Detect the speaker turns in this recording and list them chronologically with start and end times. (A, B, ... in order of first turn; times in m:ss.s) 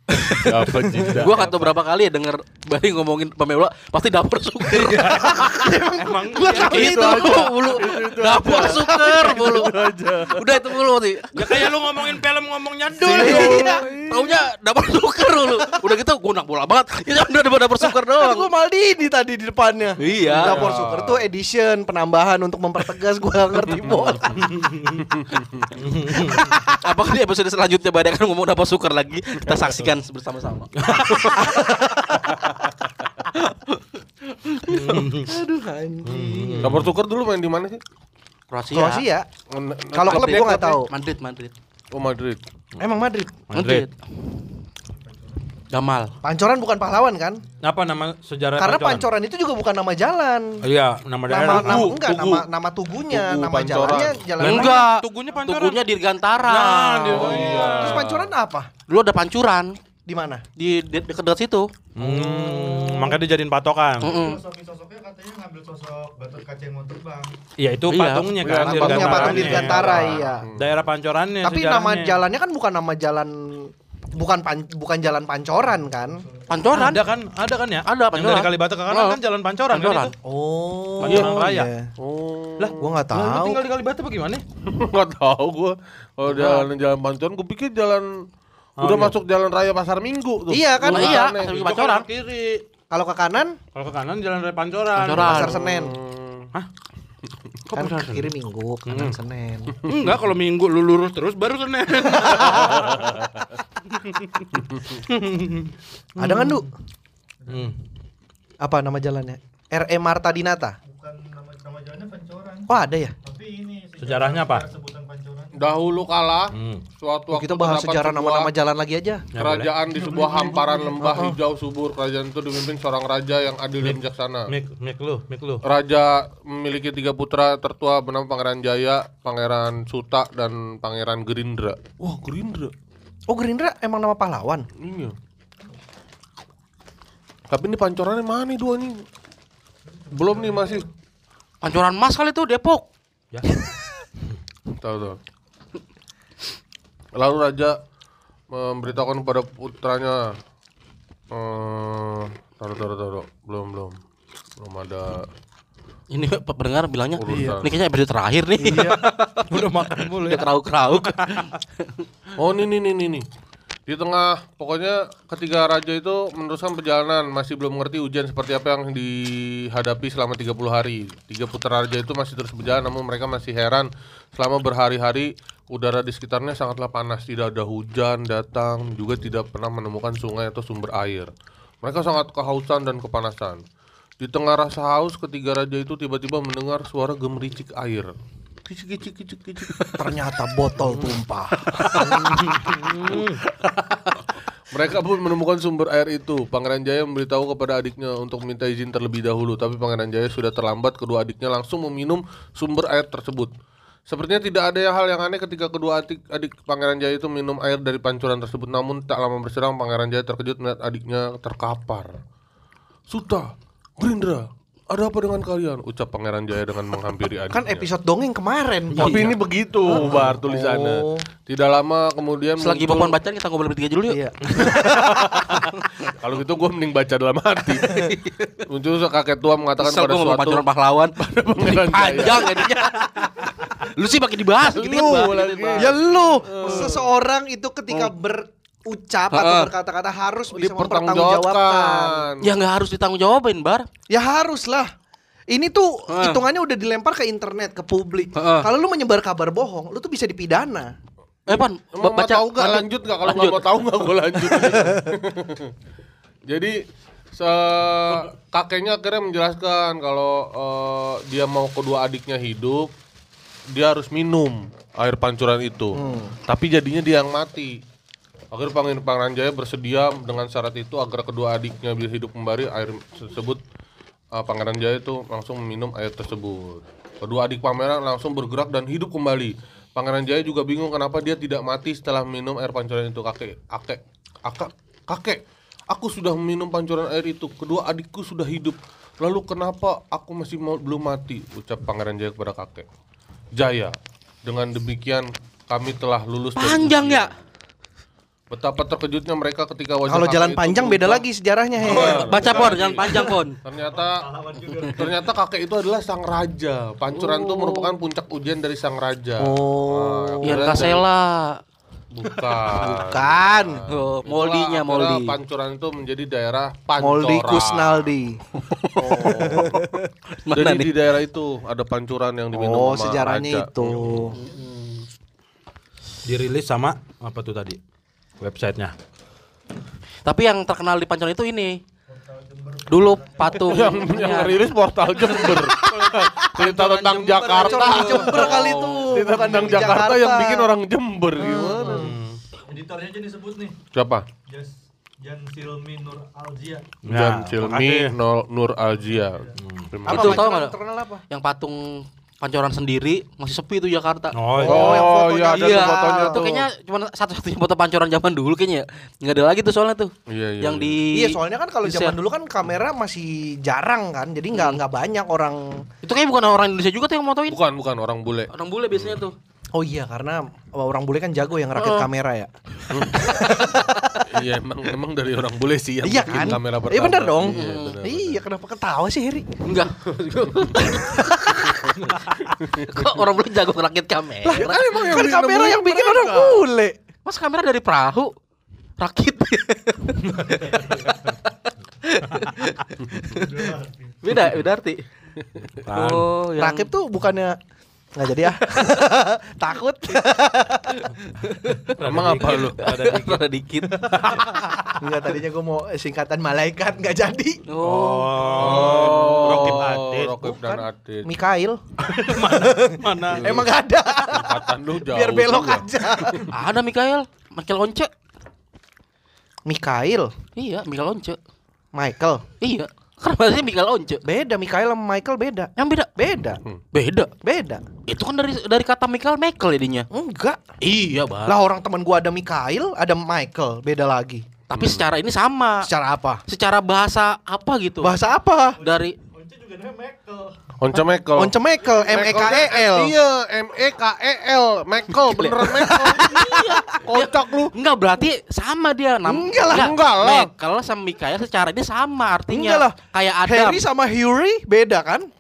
0:00.2-0:00.4 A
0:00.4-0:01.7 B
0:01.0-0:05.6 A
0:04.7-0:07.3 C
0:05.2-0:07.4 D
0:06.4-0:11.7 A
0:06.6-0:10.5 B
0:08.6-0:09.7 D
0:11.3-0:13.7 C
0:13.0-0:13.9 D
0:13.1-0:14.4 B
0:13.1-0:18.5 A
0:17.8-0:24.4 D
0:20.0-0:20.8 A
0:20.3-0:21.2 B
0:23.8-0:24.3 B
0:24.4-0:25.1 C
0:25.0-0:25.7 B
0:25.8-0:26.5 C
0:26.4-0:32.4 A
0:30.8-0:31.3 C
0:31.4-0:32.3 D
0:33.3-0:34.9 A
0:34.7-0:35.3 C
0:35.2-0:36.8 D
0:36.0-0:36.9 C
0:36.6-0:37.8 B
0:38.5-0:39.1 A
0:38.7-0:39.3 D
0:39.5-0:40.8 B
0:39.9-0:40.9 D
0:40.0-0:41.5 A
0:41.9-0:42.4 B
0:42.8-0:43.4 D
0:43.5-0:43.9 C
0:43.5-0:43.9 A
0:45.0-0:45.5 E
0:45.7-0:46.1 A
0:46.2-0:47.4 D
0:47.6-0:49.1 C
0:48.6-0:50.6 D
0:50.6-0:51.9 C
0:51.3-0:54.8 D
0:51.5-0:52.5 B
0:53.1-0:54.3 B
0:54.4-0:55.8 C
0:54.4-0:57.4 A
0:56.4-0:58.0 C
0:57.1-0:58.3 B
0:57.2-0:58.7 D
0:58.9-0:59.8 A
1:00.1-1:00.4 D
1:00.6-1:01.7 A
1:02.0-1:04.1 C
1:02.0-1:03.2 D
1:04.0-1:04.4 A
1:04.0-1:07.4 E
1:07.6-1:10.0 C
1:07.9-1:08.4 A
1:08.4-1:10.8 B
1:08.5-1:10.5 D
1:10.6-1:12.2 C
1:11.4-1:16.2 D
1:16.0-1:16.5 E
1:16.5-1:17.0 A
1:16.7-1:20.1 C
1:17.9-1:19.2 A
1:19.7-1:20.1 A
1:20.2-1:21.9 D
1:21.0-1:21.7 C
1:21.1-1:21.3 B
1:22.0-1:22.9 B
1:22.6-1:24.4 C
1:22.8-1:23.6 D
1:24.7-1:28.3 B
1:26.3-1:26.6 C
1:28.8-1:29.2 C
1:28.8-1:31.6 B
1:30.5-1:31.2 D
1:30.8-1:32.1 A
1:31.2-1:32.6 C
1:32.9-1:33.6 D
1:33.8-1:35.4 C
1:35.0-1:35.6 A
1:35.2-1:36.0 D
1:35.3-1:36.5 B
1:37.7-1:38.3 C
1:37.7-1:39.8 D
1:38.9-1:39.2 C
1:39.8-1:42.9 C
1:39.9-1:40.1 B
1:42.0-1:42.8 D
1:42.6-1:43.3 B
1:43.9-1:46.7 C
1:46.2-1:46.7 D
1:47.4-1:47.7 E
1:47.5-1:47.8 C
1:48.6-1:50.8 D
1:50.8-1:55.6 E
1:52.7-1:53.2 D
1:54.0-1:54.7 C
1:55.6-1:58.5 B
1:56.5-1:56.8 C
1:57.3-1:59.3 D
1:59.3-1:59.7 C
1:59.4-2:04.5 B
2:00.1-2:01.1 E
2:01.0-2:01.4 D
2:03.8-2:05.6 C
2:05.6-2:12.7 B
2:13.3-2:14.7 D
2:14.8-2:15.2 B
2:17.5-2:19.0 B
2:20.1-2:20.9 E
2:20.1-2:20.9 B
2:21.6-2:22.9 A
2:24.7-2:25.2 B
2:27.2-2:27.8 B
2:28.5-2:30.3 B
2:31.3-2:34.0 B
2:34.6-2:35.3 B
2:36.1-2:42.0 A
2:37.2-2:37.7 B
2:38.6-2:39.0 D
2:38.7-2:40.5 C
2:41.0-2:41.5 C
2:42.4-2:43.3 B
2:43.9-3:01.3 B
3:01.8-3:03.6 B
3:04.2-3:08.1 B
3:08.7-3:10.0 B
3:10.0-3:12.4 D
3:11.8-3:23.5 B
3:11.9-3:13.4 C
3:24.1-3:32.2 B
3:33.1-3:37.9 B
3:37.5-3:41.3 D
3:39.0-3:39.3 C
3:39.0-3:43.2 B
3:42.6-3:44.8 A
3:44.1-3:45.6 D
3:44.6-3:48.0 B
3:47.8-3:48.6 A
3:48.7-3:50.6 B
3:49.8-3:56.0 A
3:51.2-3:52.7 B
3:54.6-3:57.1 B
3:55.8-4:02.2 D
3:56.6-3:57.0 A
3:59.3-3:59.7 A
4:00.5-4:02.5 B
4:02.4-4:03.9 A
4:04.1-4:04.9 D
4:05.5-4:10.9 D
4:06.1-4:06.4 A
4:08.4-4:08.7 A
4:11.5-4:13.7 A
4:11.5-4:15.7 B
4:14.4-4:14.9 A
4:16.5-4:16.8 B
4:17.3-4:22.9 B
4:23.7-4:27.8 B
4:25.9-4:26.4 D
4:28.5-4:33.6 B
4:34.3-4:52.9 B
4:53.5-4:57.3 B
4:56.6-4:57.3 A
4:58.5-5:01.2 B
5:00.1-5:02.6 D
5:01.8-5:04.2 B
5:01.9-5:03.6 A
5:03.9-5:05.2 E
5:04.8-5:11.0 B
5:07.1-5:07.9 A
5:09.4-5:10.9 D
5:10.4-5:11.6 A
5:12.1-5:18.1 B
5:12.8-5:13.9 D
5:13.9-5:15.3 A
5:17.0-5:18.4 D
5:19.0-5:19.8 B
5:19.0-5:20.1 D
5:19.1-5:19.7 A
5:20.4-5:21.0 A
5:20.5-5:24.4 B
5:22.5-5:24.4 D
5:26.2-5:27.8 C
5:28.4-5:28.9 C
5:30.2-5:31.8 A
5:32.1-5:34.2 E
5:32.9-5:34.7 A
5:33.6-5:42.1 B
5:35.3-5:35.6 A
5:36.6-5:38.4 C
5:37.5-5:40.7 D
5:38.4-5:39.2 A
5:41.4-5:42.2 D
5:41.9-5:42.4 C
5:42.7-5:43.8 E
5:43.9-5:44.3 B
5:44.5-5:47.0 E
5:47.0-5:48.2 C
5:47.1-5:50.4 B
5:49.6-5:49.9 C
5:50.1-5:51.2 D
5:50.1-5:50.8 A
5:51.3-5:54.4 A
5:54.3-5:55.0 C
5:54.6-5:56.5 D
5:54.6-5:56.6 B
5:54.9-6:02.2 A
6:00.3-6:01.0 B
6:01.1-6:05.9 D
6:04.5-6:04.8 A
6:06.0-6:07.6 A
6:07.5-6:09.2 B
6:08.5-6:09.4 A
6:09.7-6:12.5 D
6:11.8-6:12.1 A
6:12.9-6:13.3 B
6:13.1-6:14.3 D
6:14.3-6:18.4 B
6:16.0-6:19.5 D
6:17.4-6:18.0 A
6:19.6-6:21.9 A
6:21.0-6:21.7 D
6:22.0-6:22.4 C
6:22.7-6:23.1 B
6:22.7-6:24.8 A
6:24.4-6:27.0 D
6:24.5-6:26.6 B
6:27.3-6:28.3 A
6:29.0-6:31.5 A
6:32.0-6:33.6 A
6:33.3-6:34.2 E
6:34.2-6:35.0 A
6:35.8-6:36.3 C
6:35.9-6:36.9 A
6:36.6-6:37.6 D
6:38.2-6:41.0 D
6:41.3-6:44.5 A
6:41.8-6:43.4 C
6:42.0-6:42.8 B
6:44.0-6:44.7 C
6:45.0-6:47.6 D
6:47.7-6:49.3 A
6:47.8-6:50.4 C
6:48.6-6:51.3 B
6:50.4-6:51.8 D
6:52.0-6:53.6 C
6:52.4-6:56.5 D
6:54.3-6:56.5 B
6:56.5-6:58.1 A
6:59.7-7:00.3 D
7:00.6-7:01.4 A
7:01.9-7:02.4 D
7:02.6-7:04.2 A
7:04.2-7:06.6 D
7:05.8-7:06.1 A
7:06.9-7:07.3 A
7:07.4-7:07.8 D
7:08.1-7:10.1 A
7:10.1-7:10.6 D
7:10.8-7:11.6 A
7:11.5-7:14.5 D
7:14.7-7:15.9 A
7:14.7-7:15.1 B
7:15.8-7:16.4 D
7:16.5-7:18.2 A
7:18.0-7:18.8 D
7:18.8-7:20.7 E
7:18.8-7:19.2 A
7:20.8-7:26.5 B
7:21.3-7:23.1 D
7:25.2-7:33.8 A
7:25.7-7:26.8 D
7:27.0-7:27.7 B
7:29.2-7:30.0 D
7:29.7-7:30.5 B
7:32.5-7:35.3 D